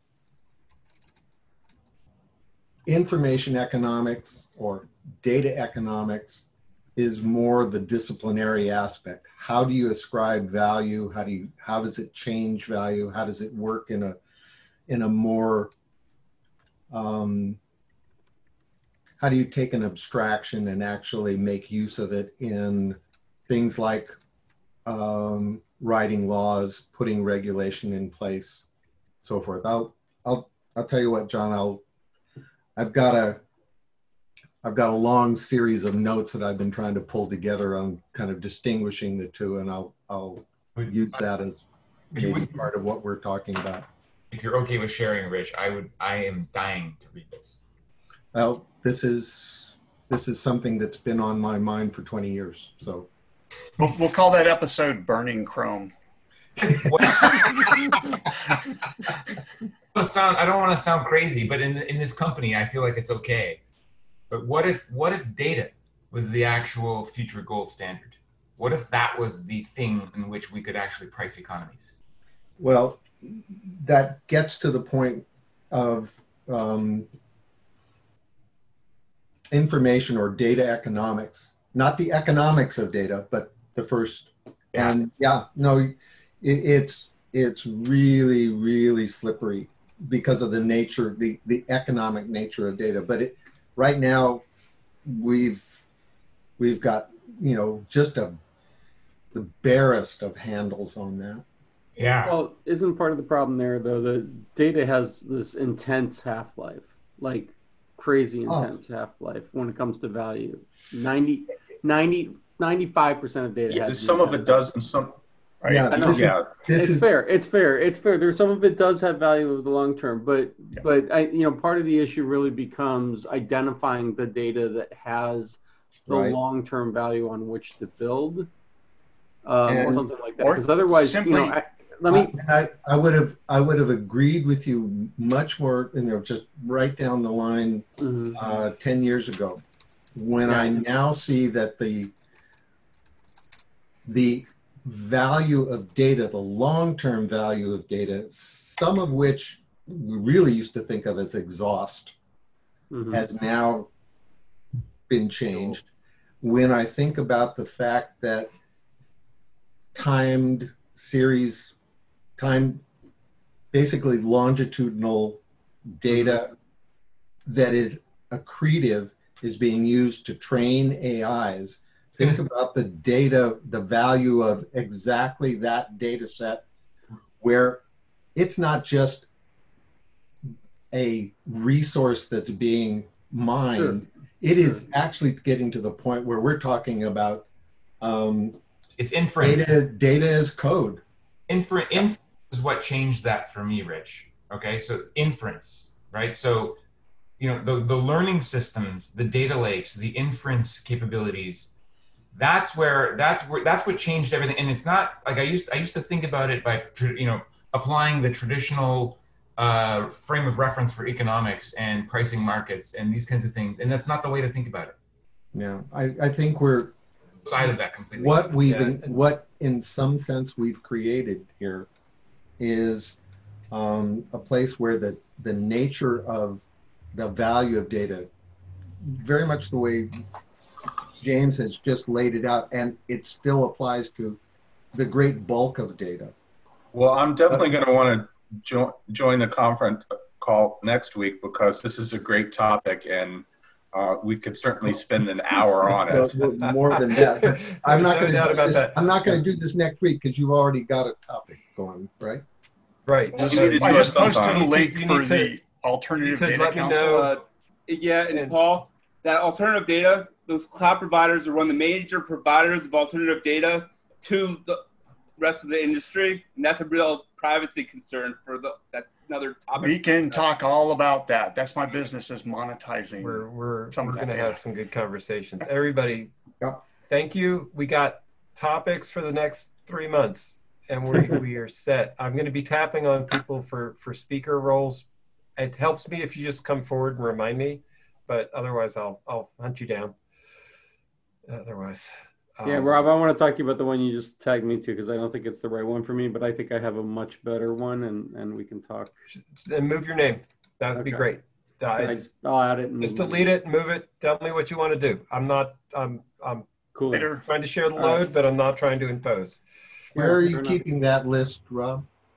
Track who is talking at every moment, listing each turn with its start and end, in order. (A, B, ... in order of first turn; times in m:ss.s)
0:02.9-0:14.2 A
0:14.9-0:15.7 A
0:16.9-0:17.6 A
0:19.2-0:24.2 A
0:24.9-0:28.7 A
0:29.2-0:31.8 A
0:32.8-0:33.4 A
0:34.6-0:43.9 A
0:42.2-0:42.5 B
0:44.3-0:47.6 B
0:48.3-0:53.1 A
0:53.8-0:55.9 C
0:56.7-0:58.0 B
0:57.1-0:57.9 C
0:59.9-1:03.6 B
1:04.3-1:12.0 B
1:12.6-1:17.1 A
1:19.5-1:34.4 A
1:35.0-1:35.8 A
1:36.6-1:38.4 A
1:39.3-1:41.4 A
1:42.0-1:42.4 B
1:42.2-1:54.7 D
1:53.7-1:55.2 E
1:55.6-1:55.9 C
1:55.7-1:57.1 A
1:55.9-2:08.5 D
1:56.0-1:56.5 E
2:06.1-2:06.4 A
2:09.4-2:12.4 D
2:09.7-2:10.0 A
2:09.7-2:11.6 C
2:12.1-2:19.6 A
2:18.0-2:18.5 D
2:20.2-2:22.1 A
2:20.4-2:20.8 D
2:24.0-2:32.2 A
2:32.9-2:33.2 D
2:33.1-2:33.9 A
2:35.1-2:35.9 A
2:36.4-2:38.5 A
2:39.9-2:41.7 A
2:42.4-2:42.8 A
2:43.7-2:45.4 A
2:46.0-2:46.6 A
2:47.5-2:56.6 A
2:57.4-2:57.8 A
2:58.4-2:59.3 A
3:00.9-3:07.5 A
3:03.7-3:04.0 D
3:08.0-3:08.6 A
3:09.0-3:09.8 B
3:09.4-3:11.0 A
3:11.5-3:16.8 B
3:17.4-3:21.7 B
3:22.3-3:35.0 B
3:35.5-3:36.9 A
3:37.4-3:38.9 B
3:38.2-3:41.9 A
3:38.7-3:39.1 F
3:42.6-3:43.2 A
3:43.7-3:48.3 A
3:49.0-3:50.1 A
3:51.2-3:54.4 A
3:54.9-3:56.3 A
3:56.9-4:06.5 E
4:06.1-4:12.4 A
4:06.9-4:09.4 F
4:13.1-4:15.6 F
4:13.4-4:14.8 E
4:13.4-4:17.3 C
4:16.2-4:17.3 F
4:17.1-4:24.8 G
4:25.4-4:30.4 G
4:29.8-4:34.6 C
4:33.2-4:36.3 F
4:37.1-4:50.2 F
4:51.5-4:53.0 F
4:52.6-4:59.1 D
4:59.4-5:02.2 F
5:01.0-5:01.3 D
5:01.9-5:03.5 D
5:03.0-5:06.7 F
5:07.0-5:07.3 D
5:07.1-5:07.5 C
5:07.4-5:09.6 F
5:08.0-5:08.2 D
5:10.2-5:10.8 D
5:10.2-5:12.1 A